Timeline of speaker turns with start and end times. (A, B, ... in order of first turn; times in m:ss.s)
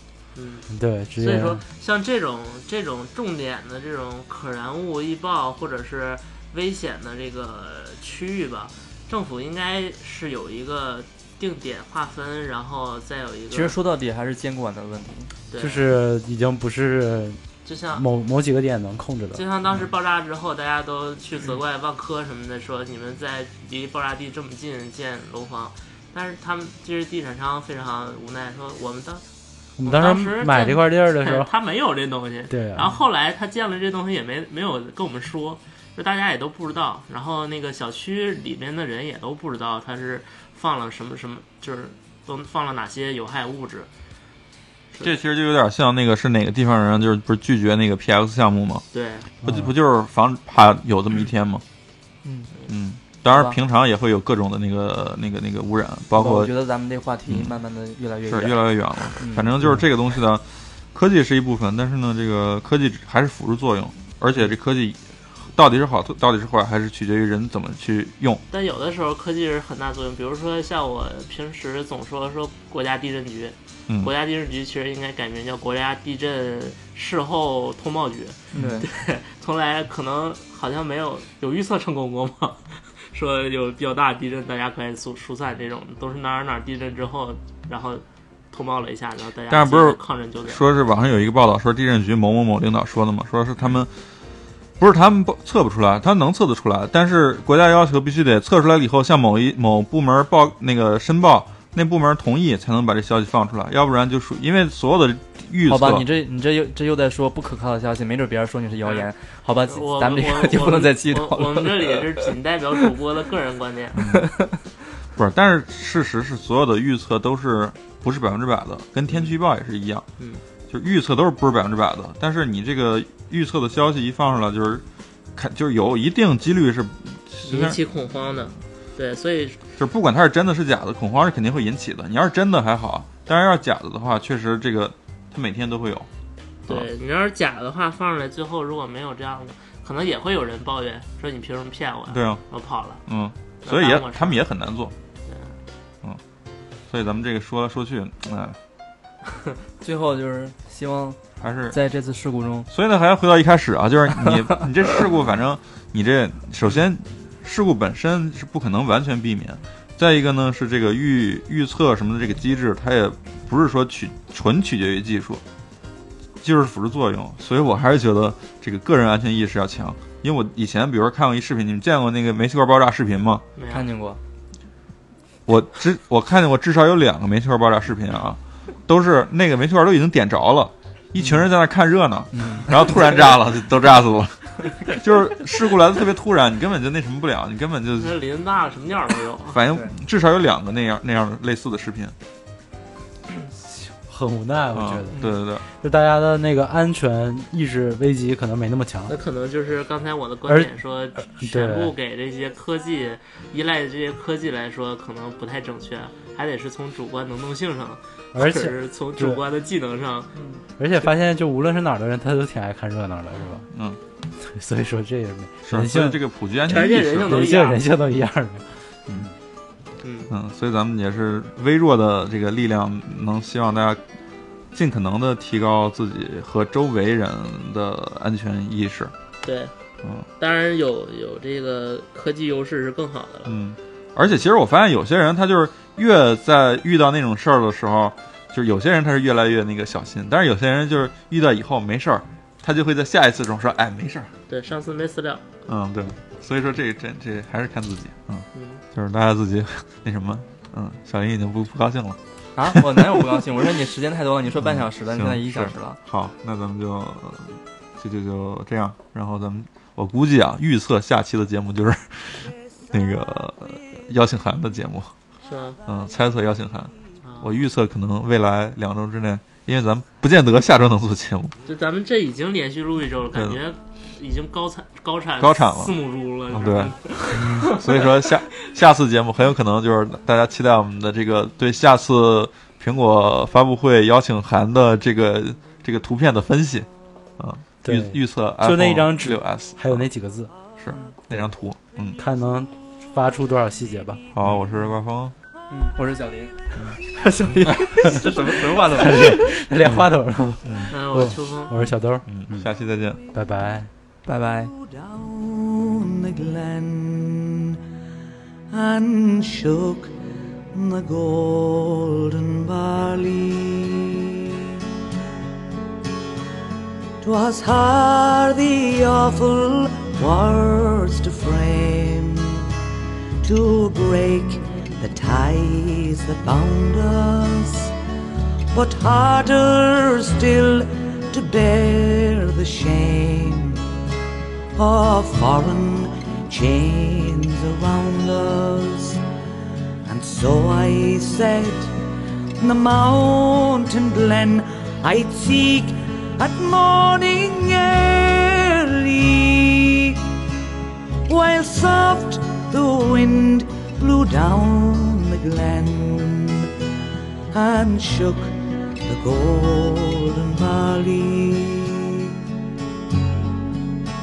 0:00.4-0:13.8 A
0:00.7-0:01.6 B
0:13.5-0:15.3 C
0:15.5-0:15.9 A
0:15.6-0:19.4 B
0:17.6-0:18.1 A
0:19.4-0:29.2 A
0:29.8-0:31.5 B
0:29.8-0:43.9 A
0:32.5-0:32.9 B
0:45.0-0:48.9 D
0:48.9-0:49.3 A
0:49.4-0:51.6 D
0:49.4-0:49.7 B
0:52.2-0:52.5 C
0:52.7-0:56.5 D
0:53.3-0:53.6 C
0:56.1-0:58.6 C
0:57.3-0:57.5 D
0:58.3-1:08.4 D
0:59.2-0:59.6 C
1:08.5-1:30.7 A
1:18.5-1:18.9 C
1:29.5-1:33.9 D
1:34.8-1:46.1 D
1:45.7-1:52.2 C
1:48.8-1:49.1 A
1:49.7-1:54.2 A
1:54.0-1:54.6 C
1:54.0-1:54.2 D
1:55.2-2:00.1 D
2:00.2-2:00.4 A
2:00.7-2:04.8 D
2:05.4-2:07.8 D
2:07.4-2:09.6 A
2:09.8-2:16.1 D
2:16.6-2:23.0 A
2:22.1-2:22.4 D
2:23.1-2:24.9 D
2:23.6-2:24.4 A
2:25.3-2:25.6 A
2:26.9-2:28.6 D
2:29.8-2:32.7 C
2:31.4-2:31.8 D
2:32.7-2:45.4 D
2:46.4-2:53.4 D
2:53.6-2:53.9 A
2:53.7-2:54.2 C
2:55.5-3:08.2 D
3:01.2-3:01.5 C
3:02.3-3:03.3 C
3:08.0-3:09.6 A
3:09.5-3:12.2 D
3:13.8-3:19.2 B
3:14.7-3:15.6 D
3:19.1-3:30.3 A
3:20.5-3:21.9 B
3:28.3-3:29.4 B
3:30.8-3:33.7 B
3:33.7-3:34.0 D
3:34.4-3:39.3 B
3:35.6-3:37.5 D
3:36.7-3:37.8 A
3:40.0-3:40.3 A
3:40.3-3:44.0 D
3:44.7-3:49.1 D
3:49.4-3:49.7 A
3:50.0-3:50.3 D
3:50.4-3:53.6 A
3:53.5-4:04.3 D
4:04.5-4:05.4 A
4:05.7-4:13.5 D
4:08.5-4:08.8 A
4:12.6-4:16.0 C
4:14.6-4:25.2 D
4:25.4-4:25.8 A
4:25.9-4:31.5 D
4:27.2-4:27.6 A
4:31.6-4:38.3 A
4:33.3-4:33.6 D
4:35.4-4:36.0 D
4:36.5-4:50.1 D
4:47.8-4:50.5 B
4:50.8-4:52.2 D
4:50.9-4:51.2 C
4:52.2-4:54.2 B
4:54.3-4:55.3 D
4:55.7-4:59.5 C
4:58.9-5:02.7 B
5:00.6-5:01.0 D
5:00.9-5:01.8 A
5:02.3-5:03.2 D
5:03.3-5:03.9 B
5:04.3-5:04.7 C
5:04.6-5:07.8 E
5:08.7-5:10.2 E
5:10.7-5:14.3 E
5:17.2-5:22.7 E
5:23.4-5:27.9 E
5:28.7-5:33.9 E
5:34.8-5:39.2 E
5:40.0-5:42.0 E
5:42.6-5:50.2 E
5:51.3-5:56.7 E
5:57.5-6:02.3 E